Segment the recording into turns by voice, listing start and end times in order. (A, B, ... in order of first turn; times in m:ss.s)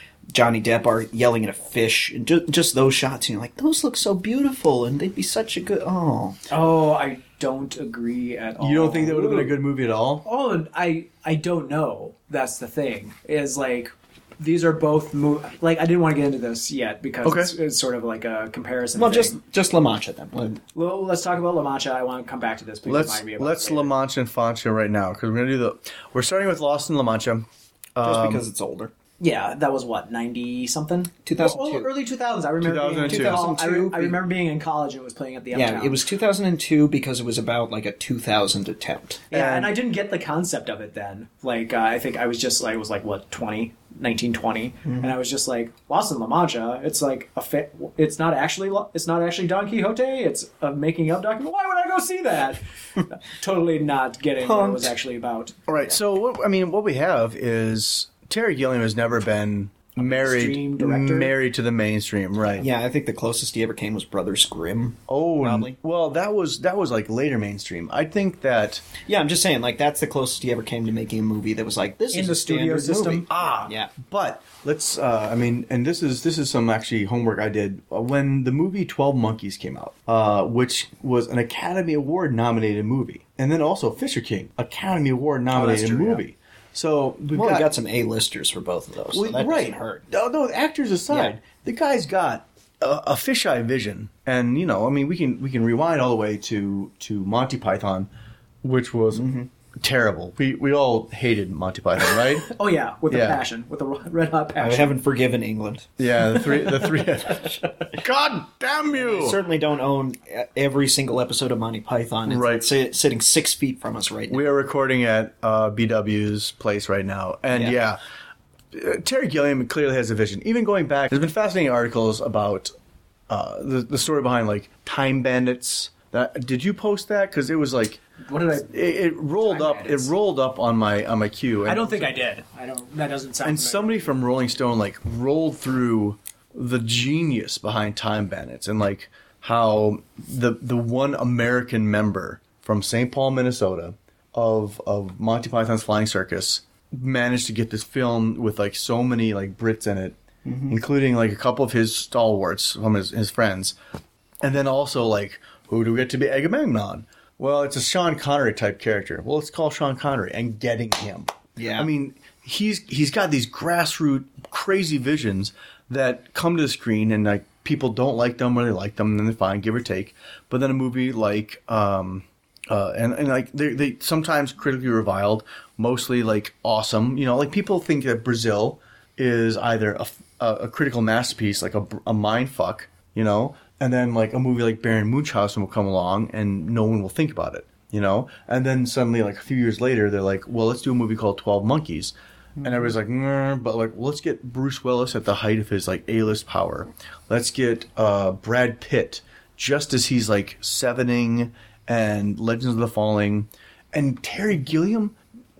0:00.3-0:06.4 A
0:06.5-0:09.6 B
0:08.6-0:10.2 C
0:10.2-0:19.4 B
0:17.2-0:17.5 C
0:19.0-0:20.6 A
0:20.7-0:23.9 B
0:22.8-0:28.4 C
0:28.0-0:28.9 A
0:29.2-0:36.0 B
0:31.2-0:31.9 A
0:32.6-0:33.5 C
0:33.1-0:34.2 A
0:35.5-0:39.2 A
0:39.3-0:55.6 B
0:39.3-0:39.8 C
0:44.8-0:45.1 A
0:54.4-0:54.9 A
0:55.7-1:02.7 C
1:00.0-1:01.3 B
1:02.6-1:05.8 A
1:05.1-1:08.9 C
1:09.1-1:13.9 A
1:12.1-1:13.5 B
1:13.3-1:27.7 C
1:25.6-1:26.2 B
1:27.3-1:30.0 A
1:29.1-1:38.1 C
1:31.1-1:31.4 A
1:38.6-1:42.5 C
1:39.1-1:39.5 A
1:42.4-1:45.0 B
1:43.1-1:43.4 C
1:44.6-1:45.9 A
1:46.0-1:49.4 C
1:48.9-1:54.4 A
1:52.3-1:52.7 C
1:54.3-1:58.0 C
1:58.7-2:02.7 C
2:03.3-2:08.0 C
2:08.2-2:08.8 B
2:08.7-2:12.1 C
2:09.4-2:10.1 B
2:11.7-2:14.1 B
2:13.4-2:30.2 C
2:30.4-2:30.7 A
2:30.7-2:33.8 C
2:34.4-3:25.2 C
2:41.6-2:41.9 A